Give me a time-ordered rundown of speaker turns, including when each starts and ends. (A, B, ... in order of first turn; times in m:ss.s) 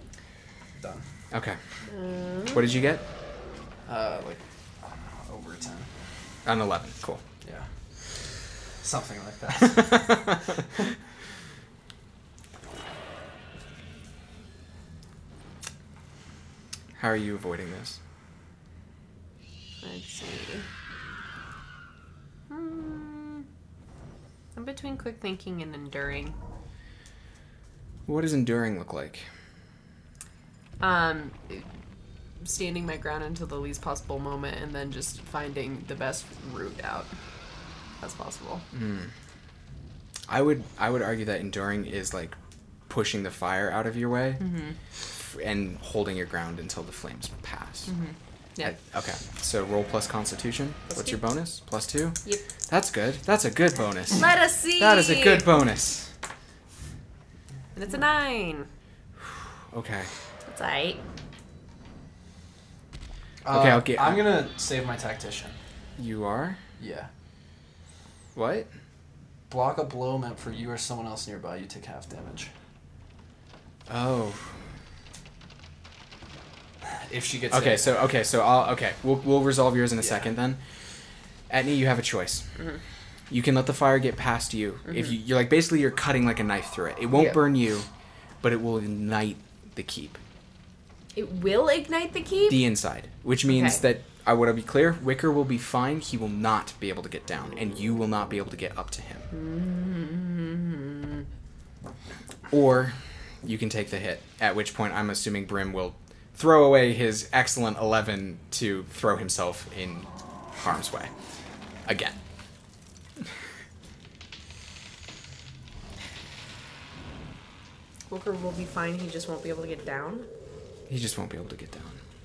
0:00.8-0:01.0 A
0:01.3-0:01.6 B
0:01.8-0:02.7 C
0:02.5-0:03.0 B
0:03.9-0:05.9 A
0:06.4-0:07.2 B
0:07.4-0:10.4 A
0:09.8-0:10.4 B
0:17.0-0:18.0 B
0:19.8-0:20.7 C
0:22.5-0:23.5 C
0:24.5-0:26.4 C
0:28.1-0:29.3 B
0:30.8-0:31.7 C
0:32.4-0:37.2 C
0:38.0-0:38.7 C
0:38.7-0:39.1 B
0:40.3-0:44.4 B
0:44.4-0:44.8 C
0:45.2-0:47.9 B
0:47.9-0:48.8 C
0:48.6-0:56.1 B
0:50.9-0:51.2 C
0:54.1-0:55.5 C
0:57.8-0:58.7 C
0:59.7-1:00.1 B
1:00.4-1:01.0 C
1:03.4-1:05.6 A
1:03.5-1:04.5 B
1:06.0-1:06.6 B
1:06.8-1:07.1 A
1:08.4-1:08.7 B
1:09.5-1:12.5 A
1:13.9-1:14.6 B
1:17.0-1:18.0 A
1:17.5-1:20.6 B
1:20.0-1:20.3 A
1:21.5-1:22.5 B
1:23.3-1:27.9 B
1:24.9-1:25.2 C
1:27.1-1:27.4 C
1:28.4-1:30.2 B
1:31.2-1:32.6 C
1:32.5-1:39.3 B
1:33.5-1:33.8 C
1:39.3-1:41.2 C
1:42.5-1:51.1 B
1:51.8-1:52.2 B
1:58.1-2:00.3 C
2:00.9-2:02.0 B